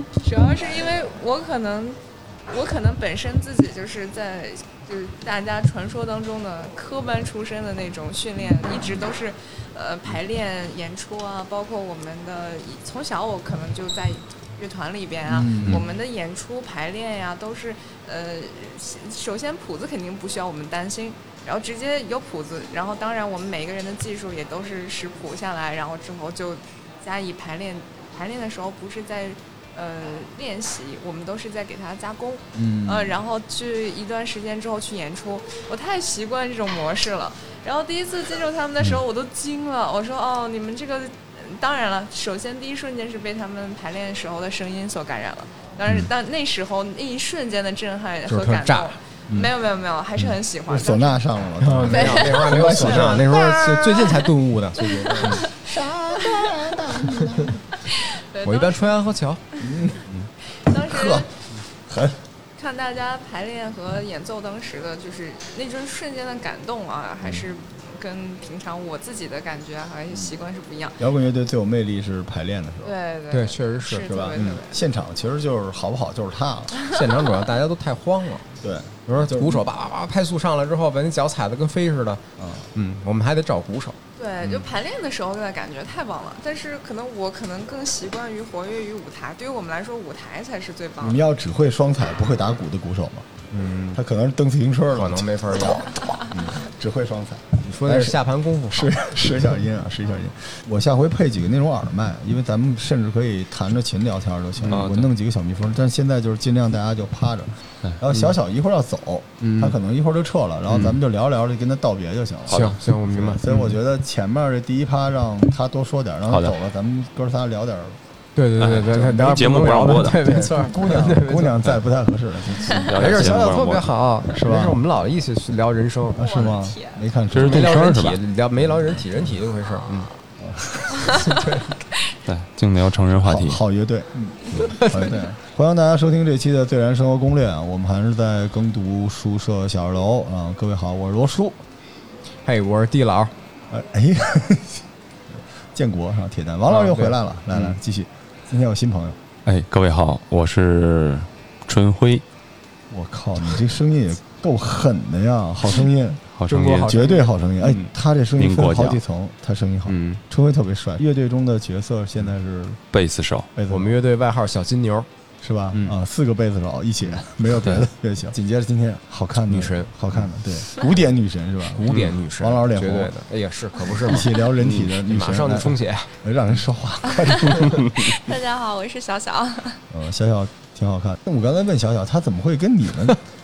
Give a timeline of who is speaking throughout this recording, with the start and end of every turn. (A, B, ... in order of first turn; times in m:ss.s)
0:00.2-0:51.2 A
0:15.3-0:15.9 B
0:32.6-0:33.2 B
0:48.3-0:49.5 C
0:50.2-0:53.3 B
0:51.6-0:55.4 C
0:51.8-0:55.6 A
0:55.2-0:57.6 B
0:56.2-0:56.8 A
0:57.1-0:57.5 C
0:57.8-0:58.9 A
0:58.4-0:59.4 C
0:59.6-1:00.2 B
1:00.5-1:01.3 A
1:00.7-1:02.2 B
1:02.6-1:11.0 A
1:11.0-1:12.9 B
1:12.8-1:14.7 A
1:13.3-1:14.6 C
1:14.1-1:16.8 B
1:16.9-1:18.5 C
1:18.6-1:19.7 B
1:19.1-1:22.2 C
1:22.4-1:22.7 B
1:22.7-1:24.7 C
1:24.2-1:31.2 A
1:31.0-1:33.4 B
1:33.5-1:34.0 C
1:33.9-1:38.2 B
1:34.9-1:36.6 C
1:37.6-1:39.4 C
1:38.7-1:58.0 B
1:44.6-1:44.8 C
1:44.7-1:45.1 D
1:48.1-1:48.4 C
1:49.4-1:49.8 C
1:50.7-1:51.0 C
1:52.5-1:52.8 D
1:52.5-1:53.8 C
1:58.3-2:01.8 C
1:58.6-2:00.5 D
1:59.0-1:59.5 B
2:00.1-2:03.6 B
2:02.6-2:02.9 A
2:02.8-2:03.9 D
2:03.0-2:06.3 C
2:04.3-2:04.8 B
2:06.1-2:07.9 B
2:06.2-2:07.0 A
2:07.3-2:08.2 D
2:07.3-2:10.1 C
2:08.6-2:09.3 B
2:10.4-2:11.3 B
2:11.0-2:11.9 C
2:12.2-2:13.6 D
2:13.2-2:21.6 B
2:14.6-2:15.2 C
2:22.4-2:23.3 C
2:23.7-2:29.2 B
2:26.7-2:27.8 C
2:29.4-2:32.2 D
2:32.9-2:36.2 B
2:36.3-2:36.9 D
2:36.5-2:37.8 C
2:36.8-2:42.8 B
2:38.4-2:39.0 D
2:39.9-2:40.2 C
2:42.9-2:43.5 D
2:43.5-2:44.0 B
2:43.7-2:45.1 C
2:45.4-2:53.1 B
2:47.5-2:47.9 D
2:49.5-2:50.2 C
2:51.7-2:54.5 C
2:53.9-2:58.0 B
2:54.6-2:54.9 D
2:55.0-2:56.1 C
2:57.1-2:59.8 A
2:59.9-3:03.2 B